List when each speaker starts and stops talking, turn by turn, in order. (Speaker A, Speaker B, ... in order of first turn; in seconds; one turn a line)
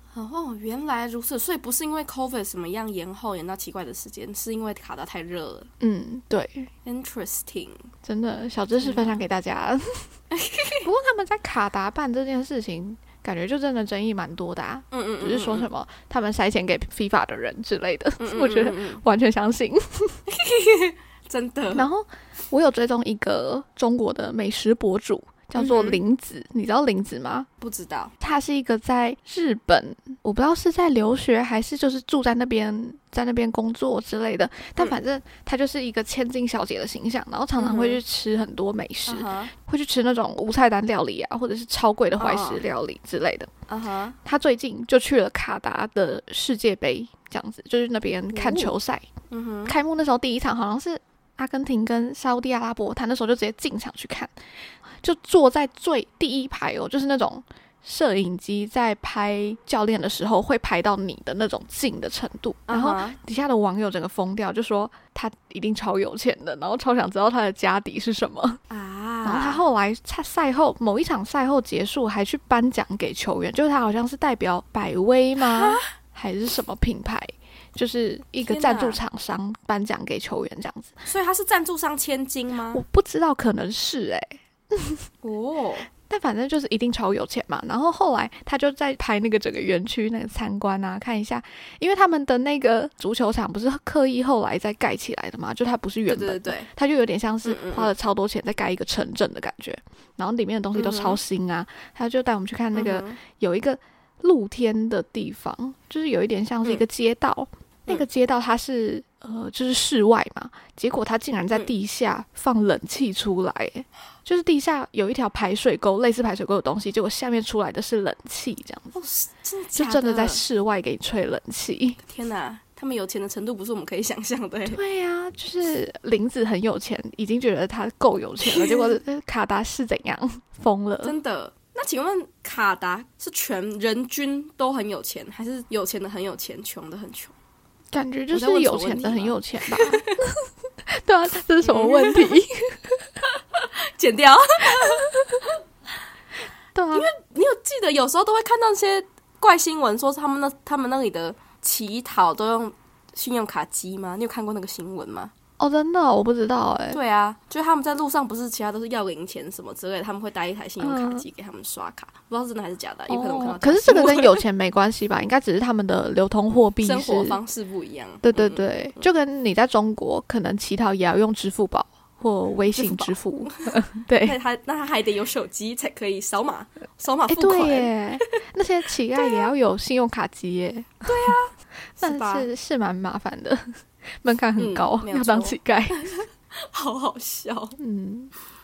Speaker A: 0.1-5.7
Speaker B: 5.8-6.7
Speaker A: 6.8-7.9
Speaker B: 8.0-10.1
Speaker A: 8.8-9.2
Speaker A: 10.3-10.9
Speaker B: 10.8-20.2
Speaker A: 14.9-15.7
Speaker A: 18.2-19.0
Speaker A: 20.3-21.9
Speaker B: 21.7-27.5
Speaker A: 25.6-26.0
Speaker A: 27.6-28.1
Speaker B: 28.2-43.5
Speaker A: 37.6-38.0
Speaker A: 39.1-39.5
Speaker A: 42.2-42.6
Speaker A: 43.7-44.2
Speaker B: 44.2-49.1
Speaker A: 48.3-48.7
Speaker A: 49.3-49.8
Speaker B: 49.6-54.3
Speaker B: 55.0-68.6
Speaker A: 62.7-63.2
Speaker A: 68.7-69.6
Speaker B: 69.2-81.0
Speaker A: 75.4-75.8
Speaker A: 78.4-79.0
Speaker A: 81.0-82.8
Speaker B: 82.7-85.1
Speaker A: 85.2-85.9
Speaker B: 86.1-119.0
Speaker A: 96.1-96.7
Speaker A: 97.5-97.9
Speaker A: 100.8-101.2
Speaker A: 102.7-103.2
Speaker A: 118.9-120.4
Speaker B: 119.8-122.0
Speaker A: 122.0-124.8
Speaker B: 124.7-131.1
Speaker A: 128.4-128.9
Speaker A: 131.0-137.3
Speaker B: 137.9-140.3
Speaker A: 138.3-140.2
Speaker B: 140.9-143.0
Speaker A: 141.6-142.4
Speaker A: 143.3-145.1
Speaker B: 144.8-145.3
Speaker B: 146.8-147.1
Speaker A: 146.9-155.3
Speaker B: 155.6-157.0
Speaker A: 156.9-164.4
Speaker B: 160.8-161.2
Speaker B: 163.1-167.4
Speaker A: 166.8-169.1
Speaker B: 168.2-174.4
Speaker A: 172.8-178.0
Speaker B: 177.3-181.3
Speaker A: 181.0-182.5
Speaker B: 182.0-186.1
Speaker A: 184.6-187.8
Speaker B: 187.8-188.3